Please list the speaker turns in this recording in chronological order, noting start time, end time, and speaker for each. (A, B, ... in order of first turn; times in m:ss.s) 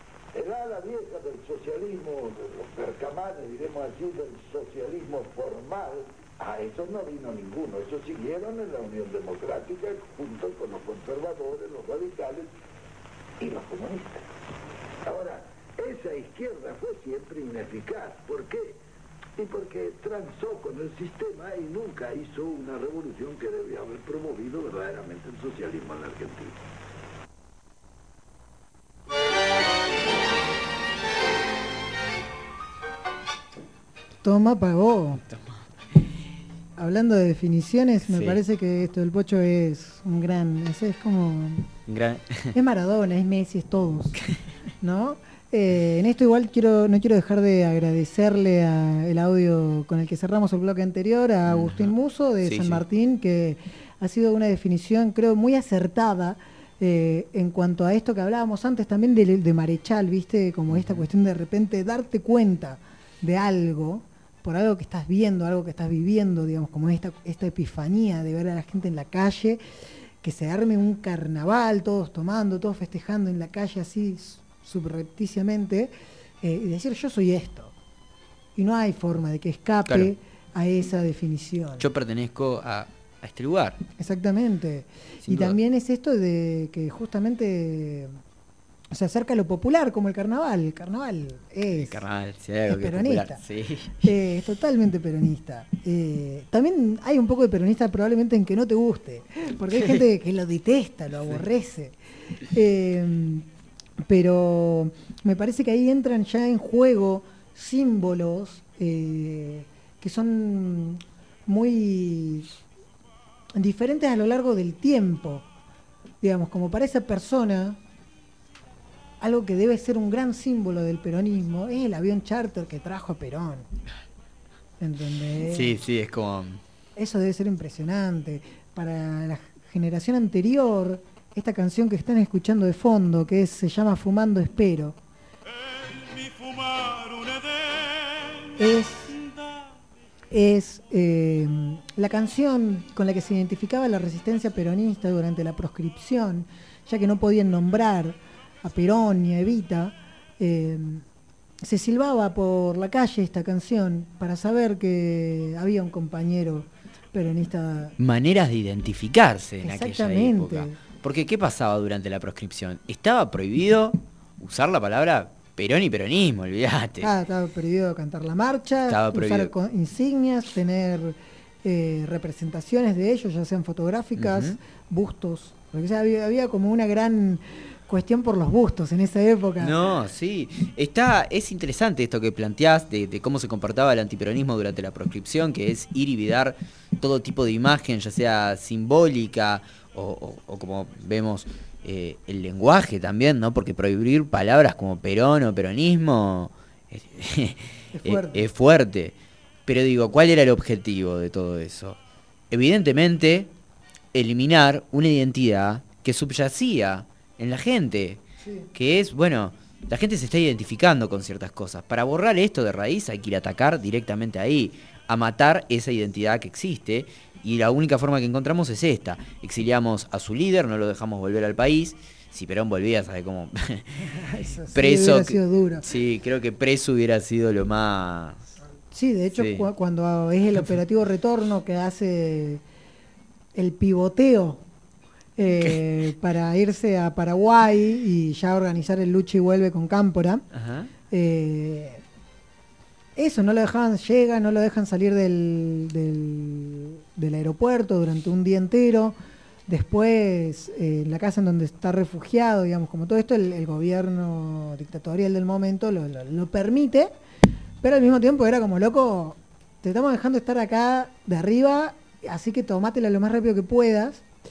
0:00.3-0:12.5 A
0:13.4-0:14.3 A
0:15.0-0:18.8 A
0:19.4-0:26.6 A
0:34.2-0:35.2 B
0:35.3-0:35.6 C
0:36.8-0:41.7 B
0:38.0-0:38.4 C
0:41.9-0:42.5 C
0:42.5-0:44.2 B
0:44.8-1:09.6 B
0:51.5-0:52.8 C
1:00.7-1:01.0 C
1:10.2-1:17.7 B
1:18.6-1:21.8 B
1:19.9-1:20.1 C
1:21.8-1:23.8 C
1:24.0-1:28.2 B
1:25.2-1:25.6 C
1:28.9-1:32.0 B
1:31.7-1:34.1 C
1:32.7-1:33.4 B
1:34.0-1:42.0 B
1:42.5-1:43.5 B
1:44.0-1:52.5 B
1:53.6-1:55.5 B
1:56.2-1:57.8 B
1:59.2-2:03.7 B
2:04.8-2:05.7 B
2:05.4-2:06.6 C
2:07.0-2:15.0 B
2:18.6-2:19.2 B
2:20.3-2:31.0 B
2:31.6-2:38.0 B
2:38.0-2:47.1 C
2:39.6-2:40.8 B
2:47.0-2:59.8 B
2:48.9-2:49.5 C
2:54.2-2:54.6 C
2:59.6-3:19.1 C
3:17.9-3:18.5 B
3:19.7-3:22.0 C
3:22.5-3:23.5 C
3:24.1-3:28.2 C
3:28.4-3:28.7 B
3:28.7-3:44.0 C
3:44.1-3:45.8 B
3:44.7-3:48.5 C
3:48.9-3:52.6 B
3:49.3-3:49.7 C
3:53.6-3:54.6 B
3:55.4-4:00.4 B
4:00.5-4:00.9 C
4:01.1-4:02.0 B
4:03.2-4:09.2 B
4:09.7-4:17.1 B
4:17.8-4:24.2 B